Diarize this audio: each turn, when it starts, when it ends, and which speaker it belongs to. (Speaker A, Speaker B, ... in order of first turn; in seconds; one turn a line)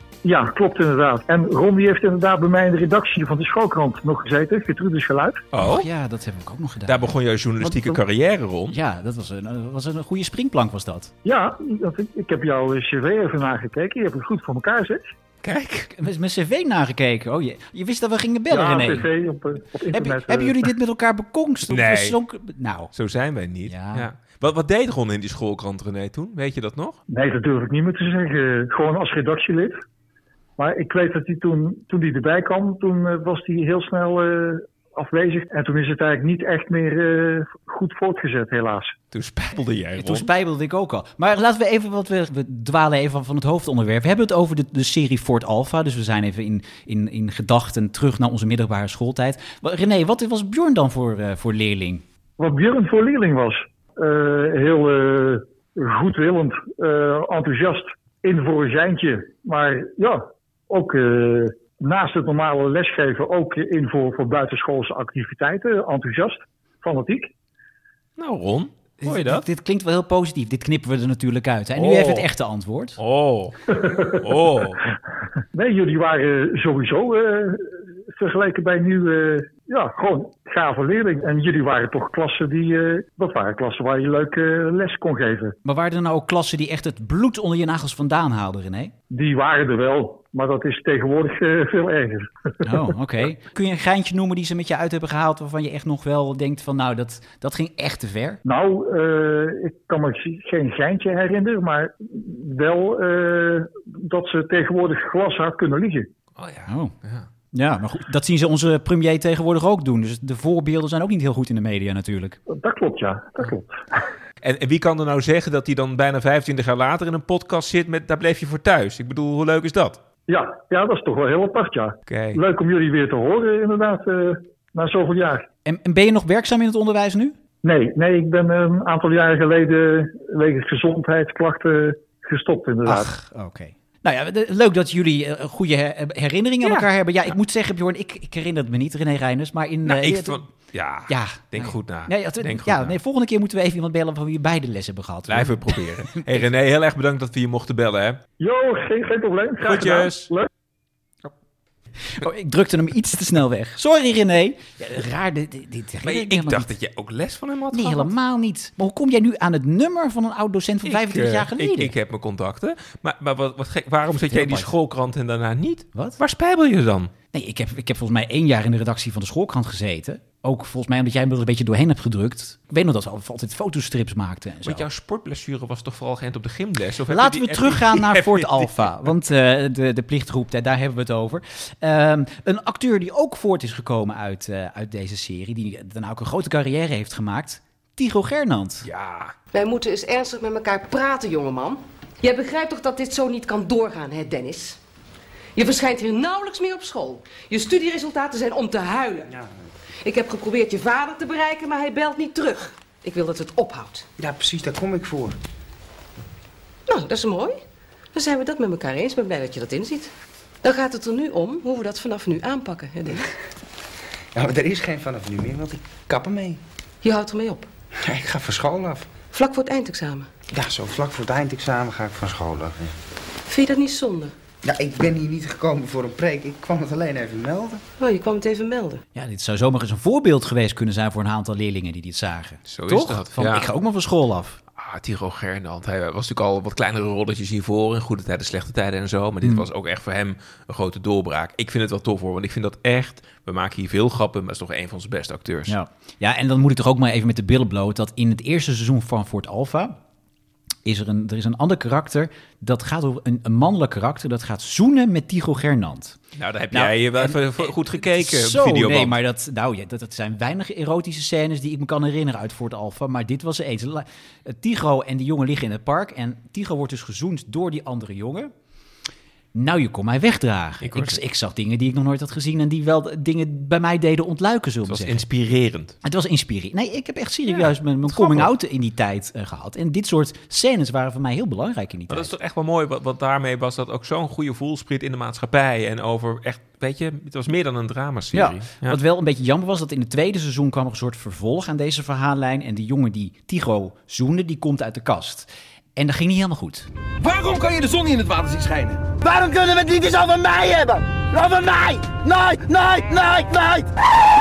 Speaker A: 0.2-5.4
Speaker B: 5.5-5.9
Speaker C: 5.6-8.0
Speaker B: 6.8-8.8
Speaker C: 8.7-11.1
Speaker A: 11.2-15.1
Speaker B: 15.4-15.9
Speaker C: 15.9-19.1
Speaker A: 18.5-20.7
Speaker C: 19.9-22.9
Speaker B: 21.7-22.2
Speaker B: 22.9-27.0
Speaker C: 23.6-24.1
Speaker A: 27.1-29.8
Speaker A: 30.6-38.9
Speaker B: 39.1-40.3
Speaker C: 40.0-52.0
Speaker A: 52.4-67.3
Speaker B: 68.2-69.4
Speaker C: 69.0-73.0
Speaker B: 71.7-72.3
Speaker B: 73.0-73.6
Speaker A: 73.7-74.1
Speaker B: 74.1-74.8
Speaker A: 75.5-85.5
Speaker C: 85.6-88.9
Speaker A: 89.1-92.7
Speaker C: 92.6-98.4
Speaker A: 98.4-106.1
Speaker B: 106.3-107.3
Speaker C: 106.7-106.9
Speaker C: 107.5-112.4
Speaker A: 112.5-113.8
Speaker B: 114.4-120.0
Speaker A: 120.3-125.4
Speaker B: 122.1-122.4
Speaker C: 125.6-127.3
Speaker A: 127.6-133.1
Speaker C: 132.8-140.4
Speaker B: 136.6-136.9
Speaker B: 139.8-142.9
Speaker C: 141.1-146.4
Speaker B: 145.3-148.2
Speaker A: 148.4-150.5
Speaker B: 149.6-150.3
Speaker C: 152.1-156.7
Speaker B: 156.0-158.1
Speaker C: 157.7-161.9
Speaker B: 160.8-167.1
Speaker C: 164.3-164.7
Speaker C: 167.3-174.8
Speaker B: 174.6-178.9
Speaker C: 177.1-188.9
Speaker B: 188.8-189.3
Speaker D: 189.5-194.8
Speaker D: 195.6-199.3
Speaker D: 200.0-204.1
Speaker E: 204.2-205.3
Speaker D: 206.9-207.6
Speaker D: 208.1-210.1
Speaker D: 210.6-213.3
Speaker E: 214.3-216.6
Speaker D: 217.0-217.7
Speaker E: 218.0-219.1
Speaker D: 219.3-220.3
Speaker E: 220.5-222.9
Speaker D: 223.4-224.3
Speaker E: 224.6-227.8
Speaker D: 228.0-229.0
Speaker C: 229.1-234.6
Speaker B: 232.7-233.7
Speaker B: 234.8-245.7
Speaker C: 239.4-239.7
Speaker C: 245.7-249.9
Speaker C: 250.8-256.2
Speaker B: 256.3-259.1
Speaker C: 256.7-268.5
Speaker C: 269.5-275.2
Speaker B: 270.8-271.2
Speaker B: 274.9-275.9
Speaker C: 276.0-282.3
Speaker B: 277.5-278.5
Speaker B: 282.1-289.0
Speaker C: 288.3-296.9
Speaker F: 297.2-303.9